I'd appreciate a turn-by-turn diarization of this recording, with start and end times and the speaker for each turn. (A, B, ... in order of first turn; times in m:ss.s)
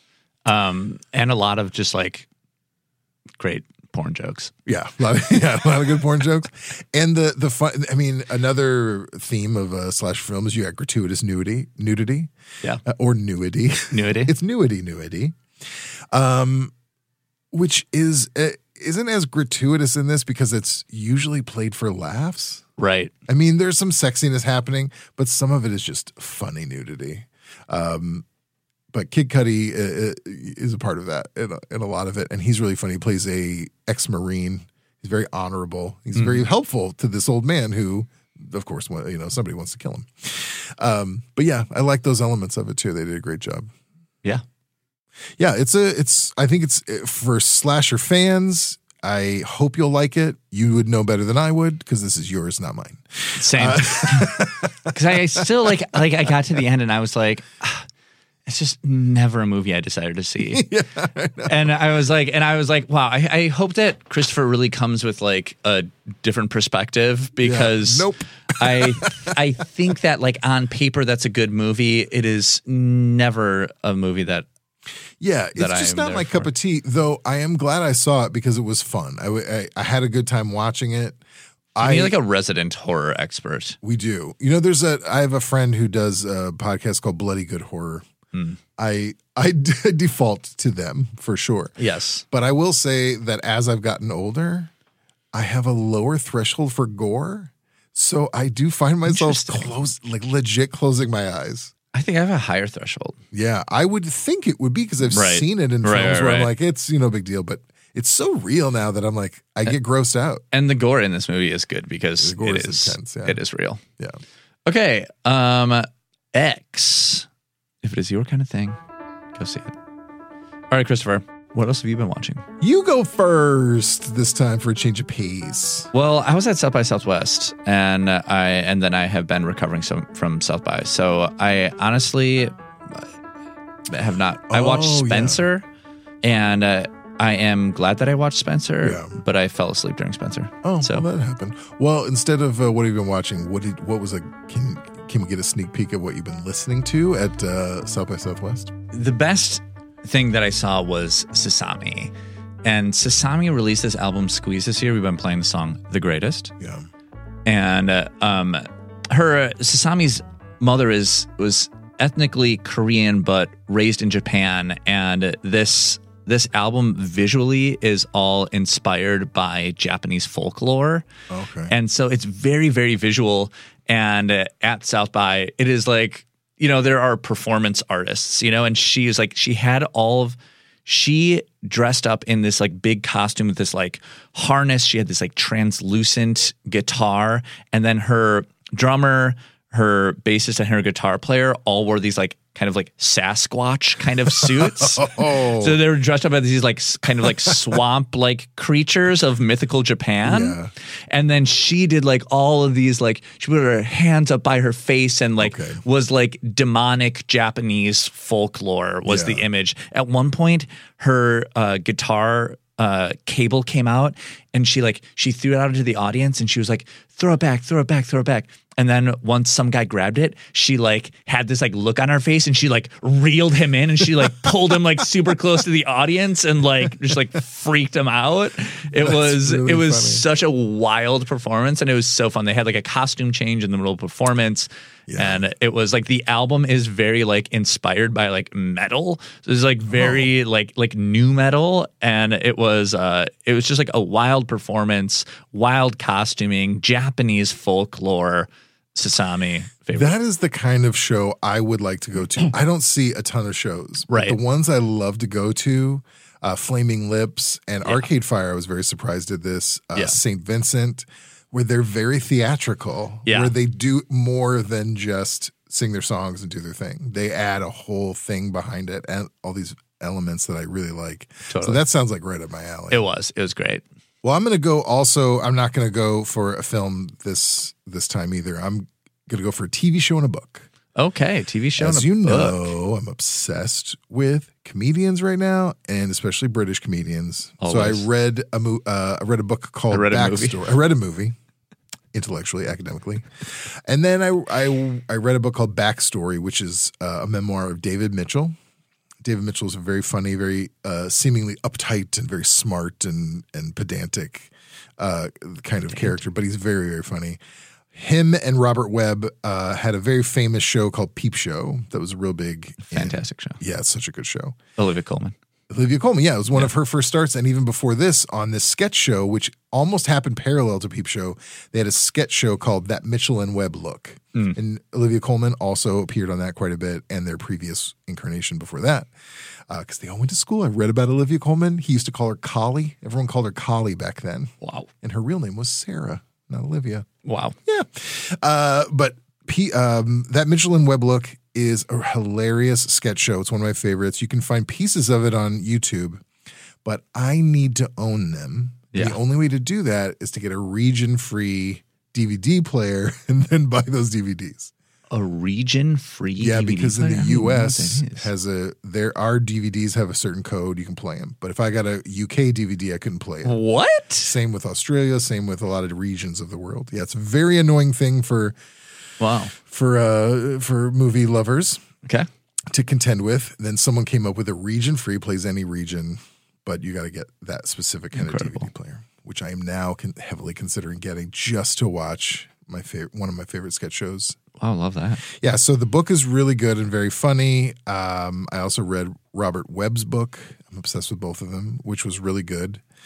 0:00.4-0:02.3 A
0:03.4-0:04.5 A
0:04.6-0:12.3 B
0:12.8-0:16.7 B
0:13.9-0:14.3 A
0:17.5-0:22.6 B
0:22.8-0:23.1 A
0:23.3-0:28.2 B
0:28.9-0:43.7 B
0:36.1-0:36.4 A
0:45.4-0:56.0 B
0:53.4-0:57.9 A
0:58.4-1:00.7 A
1:00.5-1:01.7 B
1:01.4-1:14.5 A
1:07.4-1:09.3 B
1:15.2-1:21.2 B
1:15.6-1:16.5 A
1:21.8-1:22.2 B
1:21.8-1:23.8 A
1:23.8-1:28.0 B
1:28.3-1:28.6 A
1:28.8-1:31.7 B
1:31.8-1:32.2 A
1:32.3-1:34.7 B
1:35.3-1:41.7 B
1:39.1-1:39.7 A
1:41.9-1:43.2 A
1:43.3-1:50.4 B
1:45.1-1:46.5 A
1:50.5-1:53.8 A
1:52.2-1:53.4 B
1:54.6-1:57.3 A
1:57.8-1:58.8 A
1:59.3-1:59.7 A
2:00.7-2:02.4 A
2:02.6-2:05.9 B
2:05.9-2:13.0 A
2:13.9-2:15.6 A
2:14.5-2:15.4 B
2:16.2-2:21.0 A
2:18.8-2:19.1 B
2:20.6-2:28.7 B
2:28.9-2:32.1 A
2:32.6-2:36.5 A
2:36.6-2:36.9 B
2:37.4-2:51.0 A
2:51.3-2:51.7 B
2:51.7-3:20.6 A
3:14.3-3:15.8 B
3:17.2-3:17.8 B
3:20.2-3:20.7 B
3:21.1-4:10.1 A
3:25.4-3:25.8 B
3:29.0-3:29.4 B
3:48.9-3:50.2 B
3:55.1-3:55.4 B
3:59.9-4:00.3 B
4:09.9-4:33.0 B
4:14.1-4:14.4 A
4:23.2-4:23.5 A
4:31.5-4:31.8 A
4:32.9-4:33.8 A
4:34.2-4:40.7 B
4:40.9-4:42.7 A
4:41.8-4:51.3 B
4:47.6-4:48.1 A
4:49.9-4:50.6 A
4:52.1-4:58.5 B
4:59.2-5:07.4 B
5:07.9-5:14.6 B
5:12.8-5:13.6 A
5:14.8-5:15.3 A
5:15.7-5:29.1 B
5:29.7-5:37.1 B
5:34.6-5:34.9 A
5:37.2-5:37.6 A
5:37.6-5:46.2 B
5:46.8-5:54.7 B
5:48.9-5:49.2 A
5:55.1-5:58.3 A
5:56.4-6:03.6 B
6:03.4-6:04.3 A
6:04.2-6:08.6 B
6:09.2-6:09.5 A
6:09.6-6:11.8 B
6:12.7-6:24.4 B
6:18.1-6:18.7 A
6:24.6-6:25.2 A
6:25.2-6:32.8 B